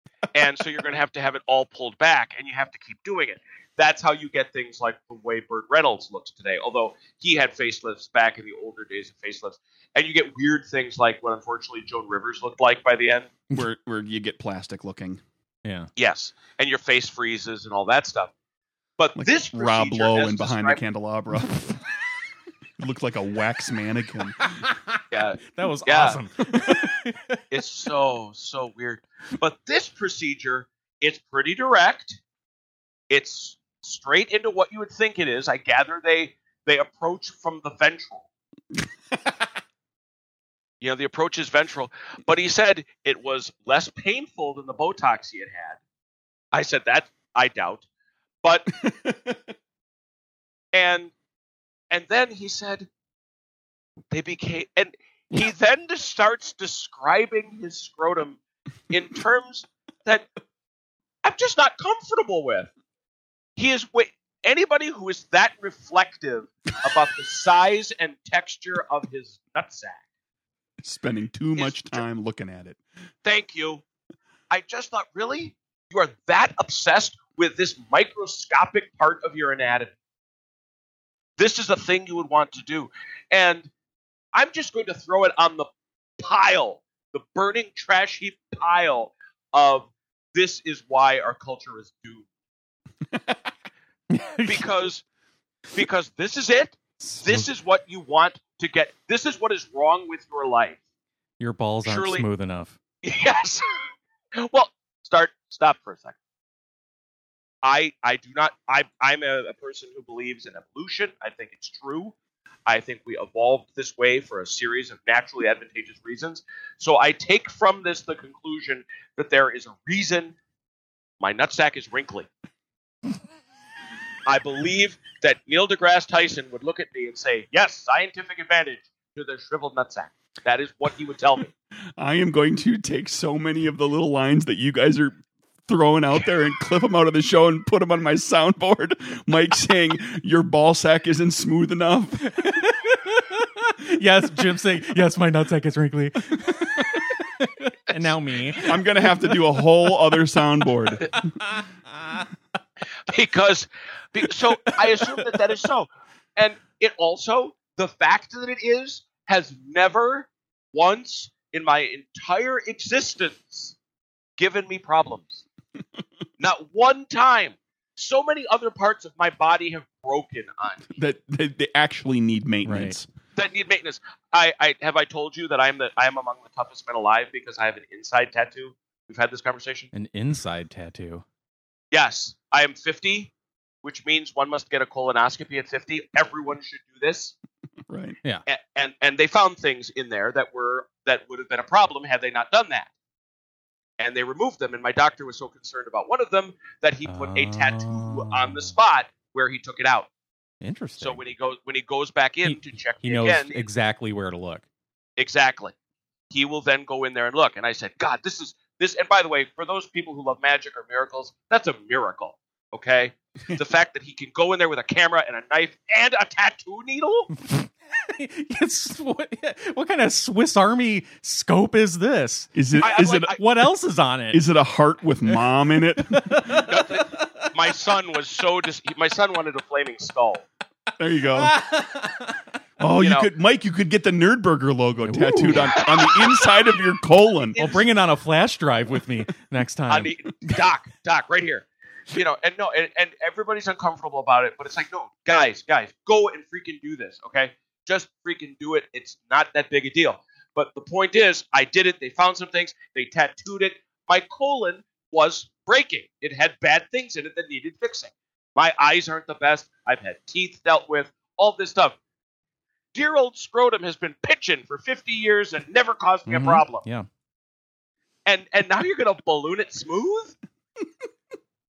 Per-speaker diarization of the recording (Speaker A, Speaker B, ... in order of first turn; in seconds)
Speaker A: 0.3-13.3, 16.0-18.3, 19.0-20.8, 25.1-26.2, 27.5-32.2, 33.1-38.3, 40.8-45.8, 46.5-47.9, 48.4-48.7, 50.7-51.1, 51.9-52.9, 54.1-58.4, 58.9-60.3, 61.2-62.7, 63.6-70.0, 71.6-72.0, 73.2-73.8, 74.5-79.9, 81.4-83.7, 84.3-92.3, 94.5-95.0, 95.7-100.8, 101.8-102.3, 103.0-103.7, 104.4-106.2, 107.6-112.2, 112.7-120.4, 121.2-122.3, 124.2-131.5, 153.1-163.8, 164.4-165.4, 166.4-171.0, 173.4-179.9, 181.9-183.3, 183.8-187.3, 188.5-192.9, 194.0-200.1, 201.0-203.6, 205.2-205.7, 206.3-217.3, 222.8-223.4, 226.7-230.4, 233.0-233.3, 235.6-236.1, 237.5-237.9, 239.9-262.0, 262.9-266.8, 268.3-270.4
Speaker B: 13.5-15.2, 19.2-21.7, 22.8-24.6, 26.5-26.8, 48.8-49.4, 70.8-72.8, 132.0-142.6, 148.6-151.3, 170.9-173.1, 187.9-188.2, 222.6-223.4, 224.3-226.7, 231.0-231.6, 232.8-237.6
Speaker C: 15.6-15.9, 24.4-27.4, 94.1-94.9, 97.0-97.5, 101.4-102.8, 142.3-149.4, 151.1-152.2, 154.7-155.3, 172.7-173.0, 179.9-181.2, 197.1-198.8, 200.6-201.2, 202.4-204.7, 217.4-224.4, 226.0-227.7, 231.3-232.5, 235.1-236.3, 237.6-240.6, 266.3-267.1